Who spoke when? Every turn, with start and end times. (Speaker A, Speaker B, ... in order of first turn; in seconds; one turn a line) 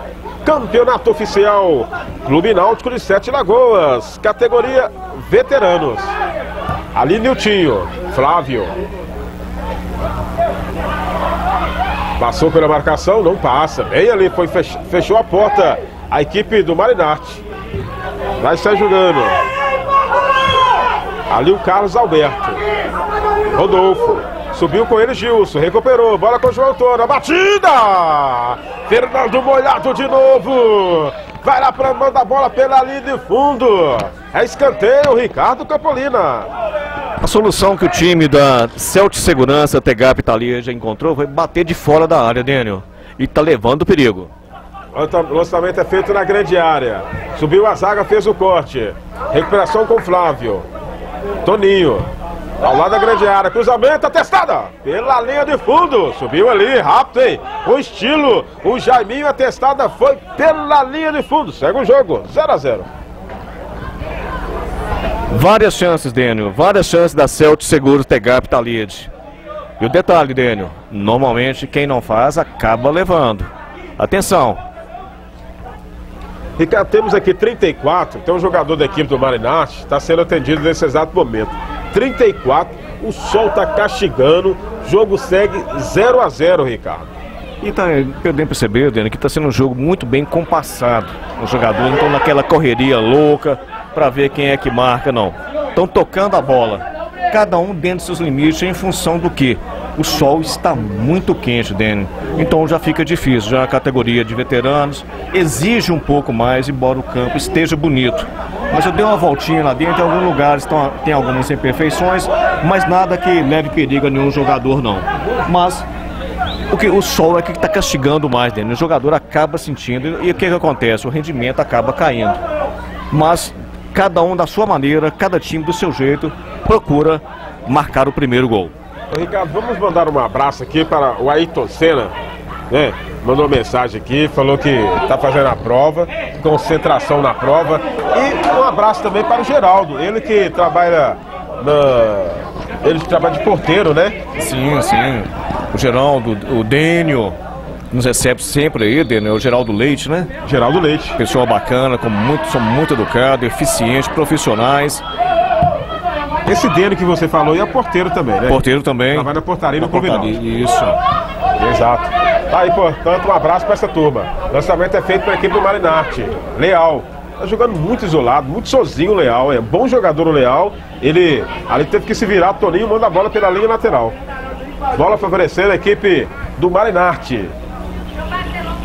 Speaker A: 0.4-6.2
Speaker A: 6.9-8.7
Speaker A: 12.2-17.4
Speaker A: 18.4-19.4
Speaker A: 21.3-22.6
Speaker A: 23.5-36.5
Speaker B: 37.2-44.3
Speaker A: 44.9-50.7
Speaker A: 51.4-52.1
Speaker A: 52.6-62.9
Speaker B: 65.3-69.1
Speaker B: 69.8-74.6
Speaker A: 76.6-87.1
Speaker B: 87.6-115.9
Speaker B: 116.7-122.4
Speaker B: 123.1-128.7
Speaker A: 129.1-132.1
Speaker A: 132.7-144.2
Speaker B: 144.3-147.4
Speaker B: 147.9-150.3
Speaker A: 150.4-151.2
Speaker B: 151.2-155.0
Speaker A: 156.4-160.3
Speaker B: 158.5-161.0
Speaker A: 161.6-174.2
Speaker A: 174.9-177.5